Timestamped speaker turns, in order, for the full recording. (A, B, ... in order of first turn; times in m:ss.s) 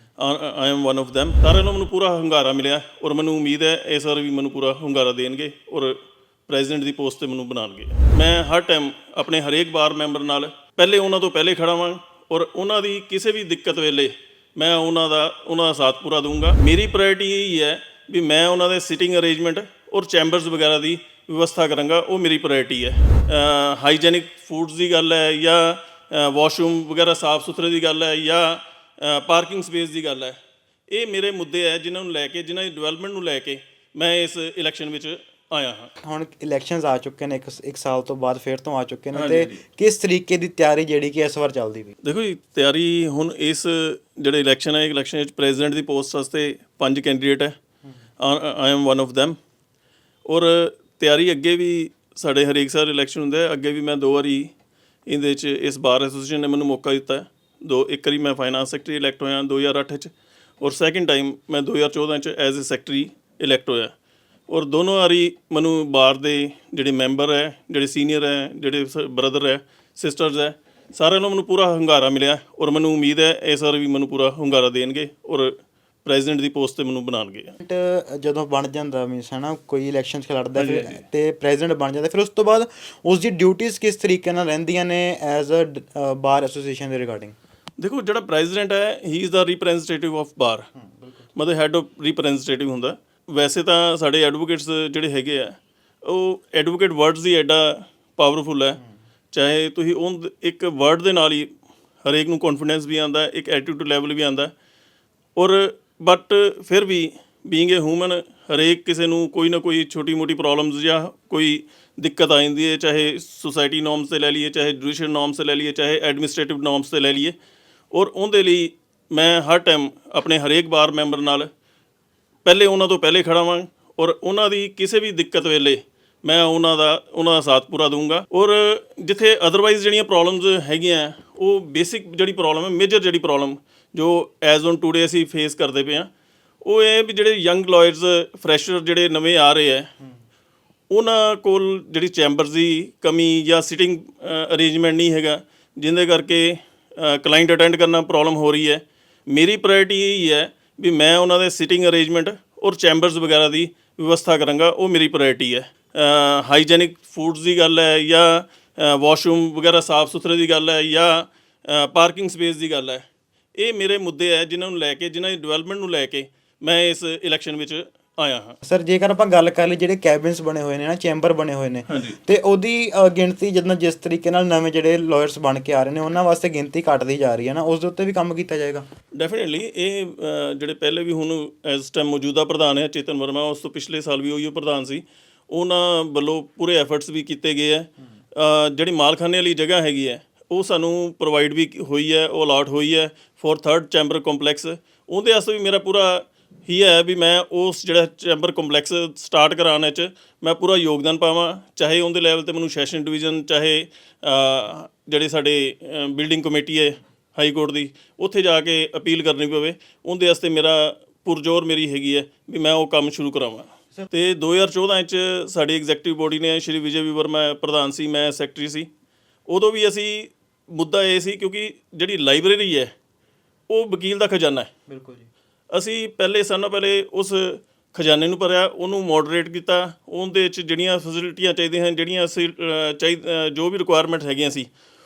0:00.2-0:30.4 A
0:30.9-0:35.9 A
0:36.0-0:41.9 B
0:39.1-0:39.6 A
0:42.0-0:47.6 A
0:48.2-0:49.4 A
0:50.3-0:54.5 A
0:55.1-1:03.9 A
1:04.5-1:17.6 A
1:17.6-1:27.4 B
1:20.6-1:21.0 A
1:27.8-1:30.7 A
1:31.4-1:38.8 A
1:39.3-1:41.5 A
1:42.0-1:44.5 A
1:45.4-1:57.4 A
1:57.9-2:01.5 A
2:02.4-2:16.1 A
2:16.6-2:19.9 A
2:20.9-2:48.6 A
2:48.6-2:58.8 B
2:51.9-2:52.2 A
2:59.2-3:38.9 A
3:39.5-3:42.9 A
3:43.7-3:44.7 A
3:44.9-3:45.3 B
3:45.7-3:54.7 A